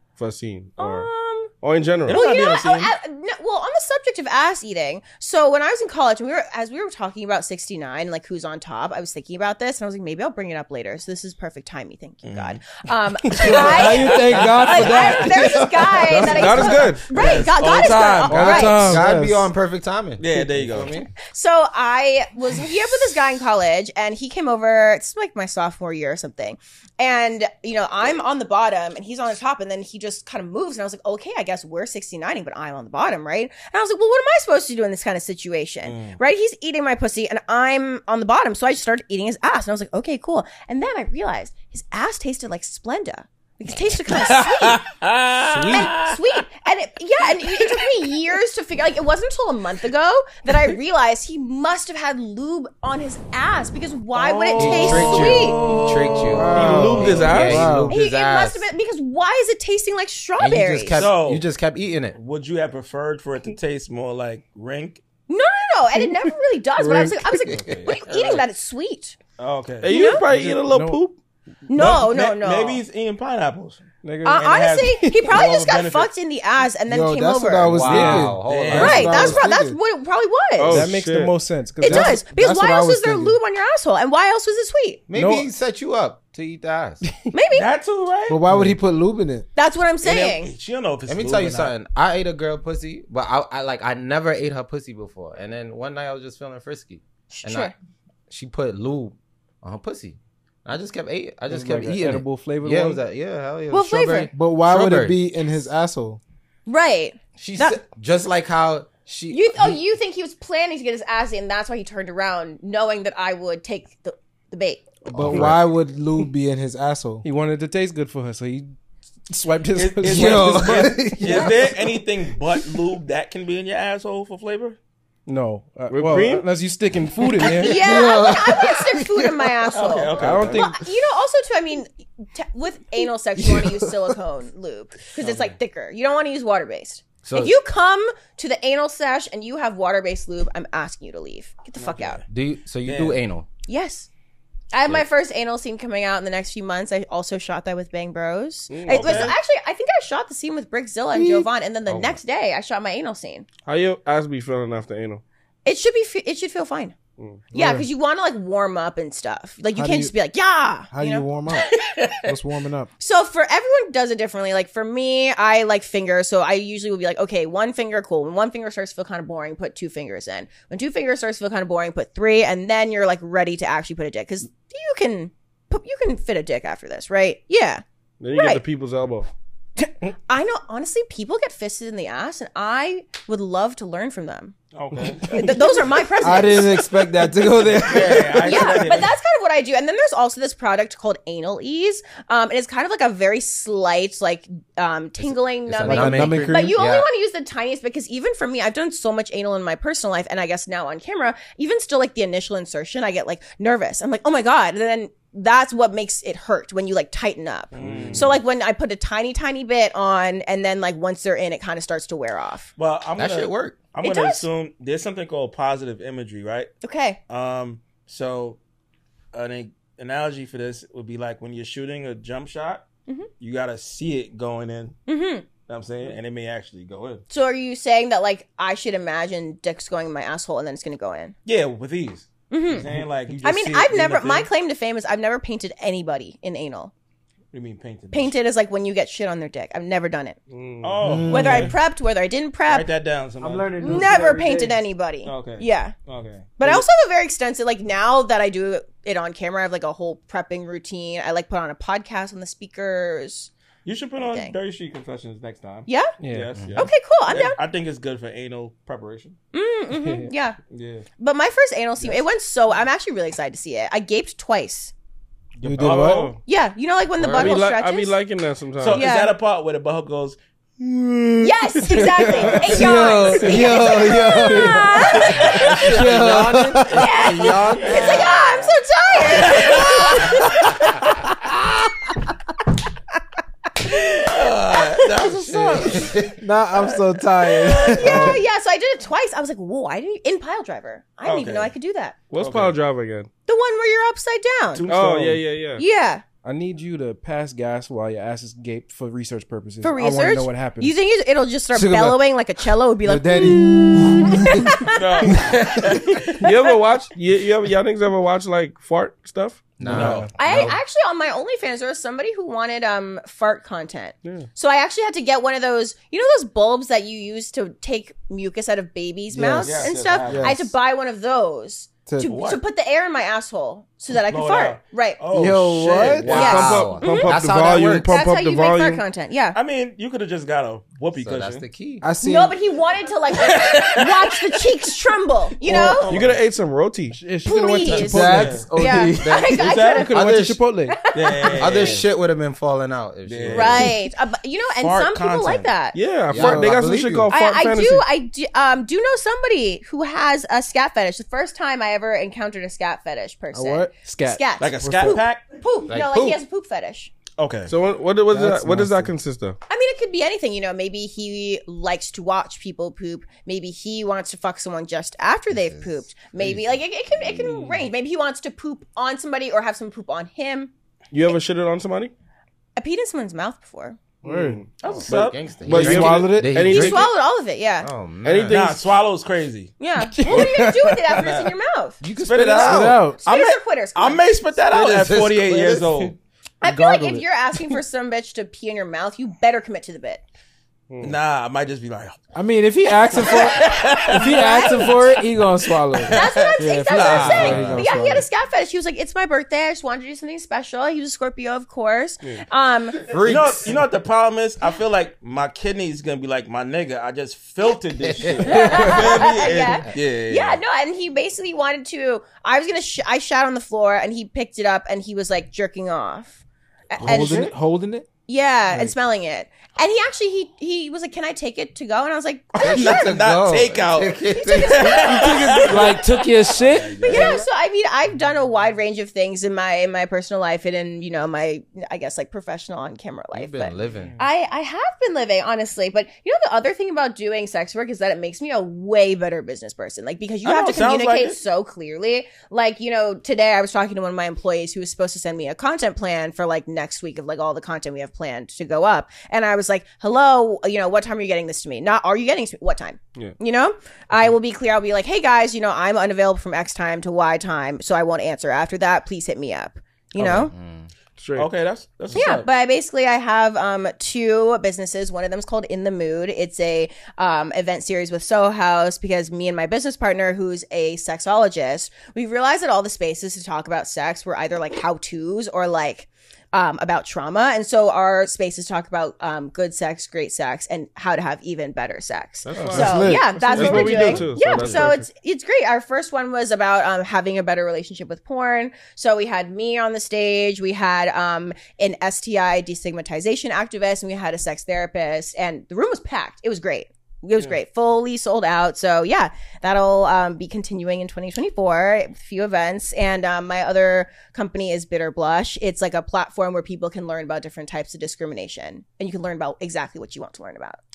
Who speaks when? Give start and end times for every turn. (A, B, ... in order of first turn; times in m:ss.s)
0:00.2-0:02.2 A
0:00.8-0:01.5 B
0:02.0-0:02.9 C
0:02.1-0:18.9 B
0:12.2-0:12.6 C
0:13.4-0:15.3 C
0:13.4-0:15.6 D
0:13.5-0:15.7 E
0:16.2-0:18.7 C
0:16.2-0:17.1 A
0:18.3-0:19.2 D
0:18.4-0:19.4 E
0:18.8-0:21.1 F
0:20.2-0:21.0 C
0:21.2-0:44.8 B
0:35.8-0:36.2 C
0:44.2-0:46.2 C
0:45.7-0:55.6 B
0:54.1-0:57.6 C
0:54.6-0:58.7 F
0:56.3-0:58.0 E
0:56.6-0:57.6 A
0:57.9-1:01.1 B
1:00.4-1:02.2 F
1:00.9-1:01.5 C
1:02.1-1:05.0 C
1:05.3-1:09.2 B
1:07.3-1:08.3 C
1:07.5-1:08.4 F
1:09.4-1:10.6 C
1:09.8-1:11.2 A
1:09.9-1:10.2 B
1:10.4-1:11.0 D
1:11.7-1:12.8 B
1:11.7-1:16.1 C
1:14.0-1:14.5 D
1:14.2-1:17.9 B
1:16.9-1:19.8 E
1:17.6-1:19.4 F
1:17.8-1:18.3 D
1:18.4-1:19.2 C
1:18.7-1:20.8 B
1:20.6-1:21.4 A
1:20.7-1:22.2 D
1:21.8-1:25.0 B
1:21.8-1:23.4 E
1:25.1-1:27.0 F
1:25.1-1:25.5 D
1:27.3-1:27.7 B
1:27.5-1:28.4 C
1:28.3-1:29.5 E
1:29.5-1:30.5 B
1:30.0-1:31.7 C
1:31.1-1:37.7 F
1:37.3-1:37.7 B
1:38.3-1:45.2 F
1:41.5-1:43.0 D
1:43.7-1:44.3 B
1:44.3-1:46.2 E
1:46.7-1:47.8 B
1:47.4-1:49.8 F
1:49.3-1:54.8 B
1:55.1-1:55.6 F
1:55.1-1:57.2 E
1:57.2-1:58.7 D
1:59.3-2:01.0 D
1:59.7-2:04.8 C
2:00.0-2:01.6 E
2:00.2-2:01.3 F
2:05.2-2:07.9 D
2:05.9-2:06.5 A
2:07.3-2:09.6 F
2:07.5-2:22.2 B
2:09.7-2:10.7 C
2:10.2-2:10.8 D
2:13.5-2:13.8 E
2:15.2-2:15.5 C
2:17.2-2:17.6 F
2:21.8-2:22.2 C
2:22.3-2:23.5 F
2:22.8-2:23.2 C
2:23.7-2:24.1 B
2:24.7-2:33.5 B
2:28.7-2:29.3 A
2:28.9-2:29.4 C
2:31.2-2:31.4 E
2:31.9-2:32.2 A
2:33.6-2:35.2 A
2:35.6-2:36.9 B
2:37.2-2:37.5 A
2:37.5-2:37.9 E
2:37.5-2:42.1 B
2:39.7-2:40.1 E
2:40.9-2:42.9 E
2:43.0-2:58.6 B
2:58.2-2:59.3 A
3:00.3-3:04.5 B
3:04.7-3:05.6 C
3:05.2-3:07.1 B
3:06.2-3:08.8 E
3:07.8-3:09.1 C
3:08.4-3:32.7 B
3:15.2-3:17.1 F
3:15.8-3:16.8 E
3:27.7-3:28.4 C
3:27.8-3:28.2 A
3:32.8-3:36.7 C
3:33.2-3:33.8 F
3:34.0-3:34.5 B
3:36.8-3:37.2 B
3:37.3-3:38.6 C
3:39.3-3:42.8 C
3:43.4-3:45.0 C
3:45.1-3:45.5 B
3:45.6-3:47.2 C
3:47.3-3:51.3 B
3:51.4-3:54.5 C
3:52.5-3:52.9 B
3:53.4-3:56.9 B
3:57.5-3:58.3 C
3:58.1-4:00.4 B
4:00.5-4:01.0 A
4:00.8-4:01.8 C
4:01.0-4:01.8 E
4:01.3-4:02.9 B
4:02.7-4:04.4 C
4:03.4-4:04.8 E
4:03.8-4:05.9 B
4:05.2-4:06.8 C
4:06.6-4:13.5 B
4:13.8-4:19.4 C
4:14.2-4:14.5 B
4:15.9-4:16.1 B
4:16.2-4:16.6 D
4:16.7-4:17.6 B
4:19.5-4:20.6 B
4:20.0-4:20.3 D
4:20.7-4:21.1 C
4:21.2-4:24.9 B
4:25.6-4:26.3 C
4:25.6-4:26.3 E
4:25.8-4:26.4 A
4:25.8-4:26.2 D
4:26.4-4:28.2 B
4:27.2-4:27.6 F
4:27.3-4:29.1 A
4:28.8-4:32.8 C
4:28.9-4:29.3 B
4:31.4-4:35.7 B
4:32.0-4:38.2 E
4:32.8-4:38.2 F
4:35.1-4:36.2 C
4:36.9-4:38.6 C
4:36.9-4:41.0 B
4:39.3-4:40.5 C
4:43.8-4:46.2 C
4:43.8-4:46.1 B
4:45.2-4:46.4 F
4:46.4-4:48.4 E
4:47.4-4:52.2 B
4:47.8-4:48.2 C
4:51.2-4:51.7 C
4:52.3-4:53.3 A
4:52.4-4:52.8 C
4:53.5-4:54.8 B
4:54.7-4:55.4 C
4:54.9-4:55.8 A
4:55.8-4:56.2 B
4:56.4-5:01.0 D
4:59.8-5:06.7 B
5:01.8-5:02.1 D
5:03.0-5:04.9 E
5:04.9-5:06.2 C
5:06.4-5:10.0 A
5:09.8-5:10.8 F
5:09.8-5:10.3 D
5:09.9-5:10.3 C
5:10.4-5:25.2 B
5:19.3-5:20.7 E
5:19.6-5:20.6 C
5:22.0-5:22.4 E
5:22.2-5:22.6 C
5:24.2-5:26.8 C
5:25.3-5:26.4 E
5:26.2-5:28.2 F
5:26.2-5:29.0 A
5:26.3-5:27.4 B
5:28.1-5:29.6 B
5:29.5-5:31.6 C
5:31.2-5:32.0 F
5:32.0-5:32.6 E
5:32.2-5:36.1 B
5:33.4-5:34.3 C
5:35.6-5:36.2 E
5:35.8-5:36.4 C
5:36.1-5:37.2 A
5:37.1-5:38.6 D
5:37.4-5:40.1 B
5:37.9-5:39.6 E
5:38.1-5:38.7 C
5:39.2-5:40.6 F
5:39.5-5:40.1 C
5:39.7-5:41.0 D
5:40.9-5:41.9 B
5:41.1-5:42.0 C
5:41.6-5:44.0 F
5:43.2-5:44.0 C
5:43.5-5:46.0 B
5:44.8-5:45.7 C
5:45.9-5:48.0 A
5:46.3-5:47.3 F
5:46.3-5:47.2 E
5:47.3-5:57.1 B
5:53.5-5:54.0 E
5:54.0-5:54.4 D
5:54.6-5:55.4 C
5:54.8-5:55.2 E
5:55.9-5:56.4 F
5:57.4-5:57.7 C
5:57.7-5:59.6 A
5:58.3-5:59.1 E
5:59.7-6:10.7 B
6:05.5-6:07.6 F
6:11.1-6:12.1 A
6:12.8-6:14.0 B
6:14.2-6:14.6 A
6:14.2-6:14.6 E
6:14.8-6:15.6 C
6:14.8-6:17.1 F
6:15.6-6:17.1 A
6:15.7-6:16.8 E
6:16.6-6:17.9 B
6:17.8-6:18.6 F
6:18.2-6:18.8 A
6:18.5-6:19.7 C
6:19.8-6:22.0 B
6:20.1-6:21.2 D
6:21.1-6:21.5 C
6:22.0-6:23.0 F
6:22.2-6:26.2 C
6:22.6-6:23.2 E
6:23.2-6:24.2 B
6:24.7-6:26.1 F
6:26.6-6:30.2 B
6:26.6-6:27.0 D
6:26.7-6:27.2 E
6:30.9-6:31.2 A
6:31.0-6:32.2 C
6:32.3-6:38.2 E
6:33.1-6:35.0 C
6:33.2-6:35.1 B
6:34.4-6:34.8 D
6:36.0-6:37.9 C
6:36.1-6:43.0 B
6:43.0-6:43.8 F
6:43.2-6:50.6 C
6:48.0-6:49.2 F
6:48.4-6:57.5 B
6:57.0-6:58.1 E
6:57.0-6:57.5 C
6:58.3-7:03.1 B
7:02.5-7:07.4 C
7:02.6-7:05.4 F
7:04.3-7:06.0 B
7:05.1-7:07.3 D
7:07.0-7:40.5 B
7:13.3-7:14.2 F
7:20.4-7:21.4 C
7:40.2-7:40.9 F
7:41.2-7:41.5 A
7:41.4-7:42.5 C
7:42.1-8:30.8 B
8:02.4-8:05.1 A
8:02.7-8:04.3 E